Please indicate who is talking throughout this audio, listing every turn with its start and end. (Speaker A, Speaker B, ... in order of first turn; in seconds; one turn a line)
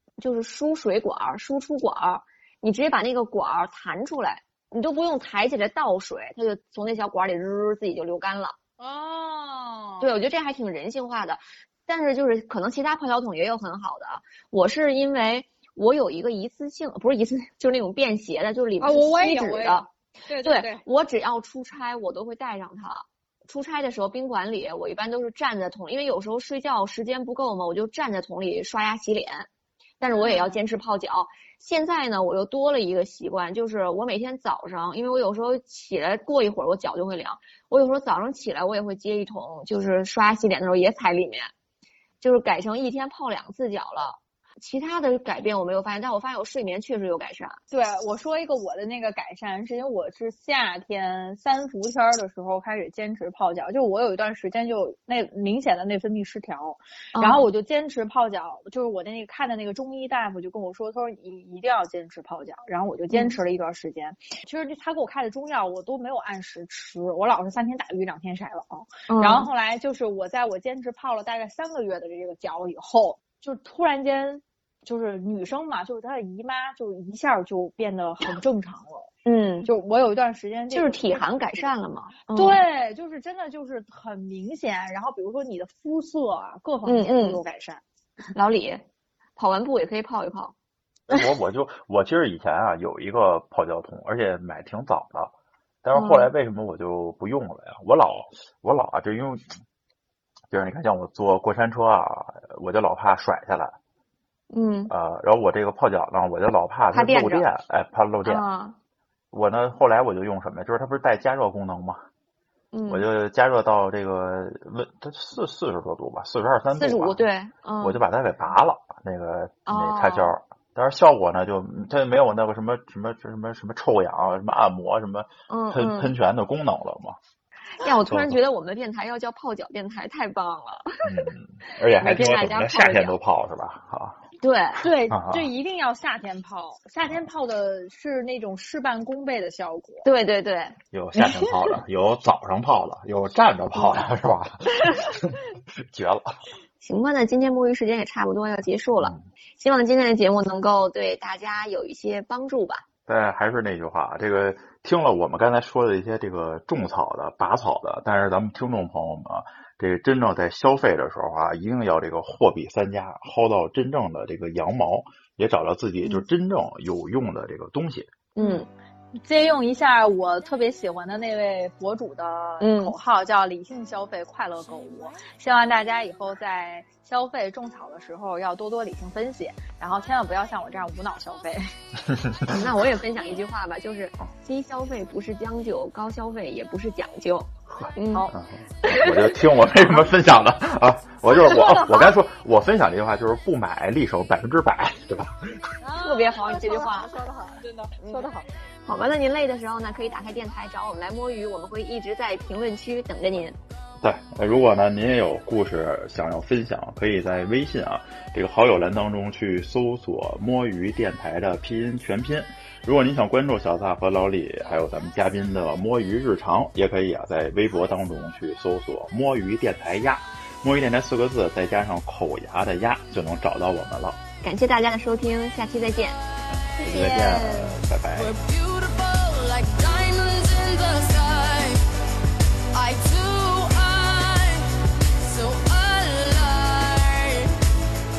Speaker A: 0.2-8.6
Speaker B: 8.8-10.1
Speaker A: 10.0-19.9
Speaker B: 18.8-20.8
Speaker A: 20.4-29.5
Speaker A: 30.0-41.5
Speaker B: 30.0-30.6
Speaker A: 42.2-47.6
Speaker B: 47.7-79.1
Speaker A: 57.1-57.5
Speaker A: 63.1-63.4
Speaker A: 69.1-69.5
Speaker A: 79.2-79.7
Speaker B: 79.6-81.7
Speaker A: 80.7-82.6
Speaker B: 82.3-87.8
Speaker A: 86.8-87.4
Speaker A: 88.3-88.8
Speaker A: 89.4-90.5
Speaker C: 91.1-95.3
Speaker C: 95.8-99.5
Speaker A: 95.9-96.3
Speaker C: 100.5-103.8
Speaker A: 104.5-104.9
Speaker C: 104.9-108.4
Speaker A: 106.9-107.5
Speaker A: 108.2-108.8
Speaker C: 109.3-112.0
Speaker A: 112.7-113.0
Speaker C: 112.9-117.3
Speaker A: 116.8-118.0
Speaker C: 117.8-127.2
Speaker A: 119.7-120.3
Speaker A: 125.5-126.1
Speaker A: 127.8-131.2
Speaker C: 128.1-128.4
Speaker C: 131.0-134.2
Speaker A: 132.0-133.2
Speaker A: 134.4-134.9
Speaker B: 134.8-140.1
Speaker C: 135.1-135.5
Speaker A: 140.0-140.8
Speaker C: 140.9-146.4
Speaker A: 146.8-152.8
Speaker C: 149.0-149.2
Speaker C: 153.1-168.1
Speaker A: 168.3-168.7
Speaker B: 168.4-181.6
Speaker A: 172.6-172.9
Speaker A: 182.5-188.3
Speaker C: 187.7-195.7
Speaker A: 188.8-189.2
Speaker B: 191.4-192.1
Speaker B: 195.8-198.5
Speaker A: 196.0-197.2
Speaker A: 198.0-198.3
Speaker A: 198.8-203.6
Speaker C: 204.0-224.2
Speaker A: 224.4-226.2
Speaker C: 226.5-228.3
Speaker B: 226.8-227.8
Speaker D: 228.1-231.8
Speaker D: 232.7-237.6